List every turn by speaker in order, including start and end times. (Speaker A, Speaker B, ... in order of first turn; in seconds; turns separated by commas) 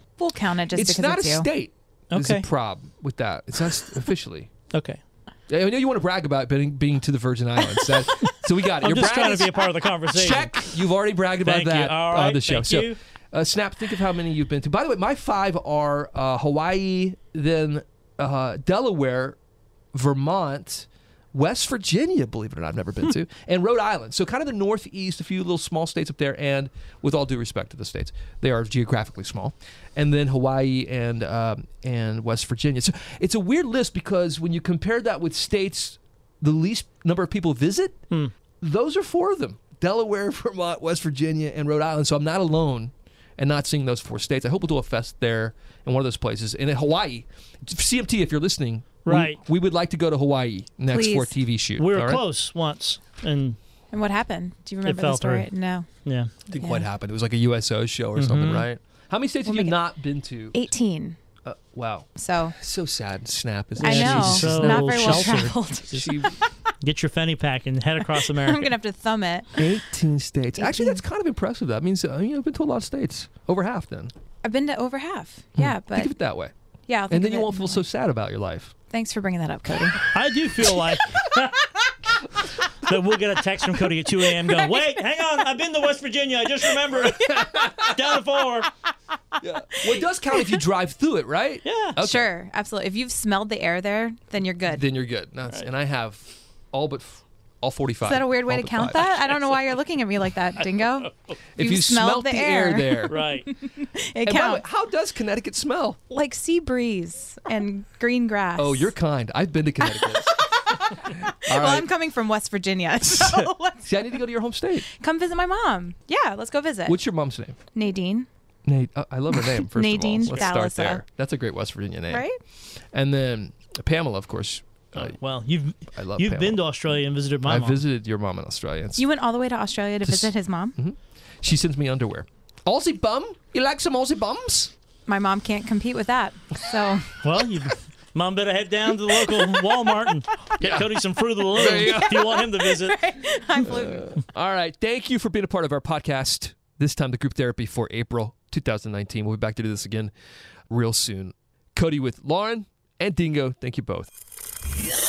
Speaker A: 0.2-1.5, Speaker B: 0.7-4.5, Speaker C: 2.1-2.5, Speaker C: 4.7-5.0, Speaker B: 5.5-19.4, Speaker C: 8.8-10.7, Speaker C: 11.4-13.0, Speaker B: 19.9-38.0, Speaker B: 38.6-52.2, Speaker C: 49.0-49.4, Speaker A: 50.9-51.4, Speaker C: 51.8-53.6, Speaker A: 53.9-55.9, Speaker C: 54.9-55.5, Speaker C: 56.0-56.3, Speaker B: 56.5-60.6, Speaker A: 56.6-56.9, Speaker C: 58.1-58.7, Speaker A: 59.5-59.8, Speaker A: 60.5-61.2, Speaker B: 61.4-66.3, Speaker A: 62.1-62.6, Speaker A: 63.8-66.6, Speaker C: 63.8-66.2, Speaker C: 66.8-68.7, Speaker A: 68.2-69.7, Speaker B: 69.6-74.1, Speaker A: 70.6-71.0, Speaker A: 74.4-76.1, Speaker B: 75.6-76.5, Speaker A: 76.9-77.8, Speaker B: 77.1-78.7, Speaker A: 78.9-80.1, Speaker C: 80.1-81.9, Speaker C: 82.8-88.7, Speaker A: 84.5-84.8, Speaker A: 87.0-87.7, Speaker B: 87.1-87.9, Speaker B: 89.4-92.3, Speaker A: 89.7-90.6, Speaker C: 91.6-92.0, Speaker A: 92.0-94.8, Speaker B: 94.7-99.4, Speaker A: 98.0-104.6, Speaker B: 101.6-103.2, Speaker C: 103.1-103.5, Speaker B: 104.2-106.0, Speaker A: 106.1-108.9, Speaker B: 108.6-110.5, Speaker A: 109.8-113.9, Speaker B: 111.1-111.9, Speaker B: 113.0-114.9, Speaker A: 114.8-117.0, Speaker B: 116.9-117.6, Speaker A: 117.7-118.3, Speaker B: 118.7-122.3, Speaker A: 119.4-121.0, Speaker A: 122.1-122.4, Speaker B: 122.9-125.1, Speaker C: 124.9-127.8, Speaker B: 125.9-126.6, Speaker B: 127.4-129.1, Speaker A: 129.0-130.8, Speaker B: 130.0-134.7, Speaker A: 135.1-137.2, Speaker C: 137.2-143.0, Speaker B: 140.6-140.9, Speaker B: 141.5-142.3, Speaker A: 141.6-144.2, Speaker B: 143.6-150.1, Speaker B: 150.7-154.1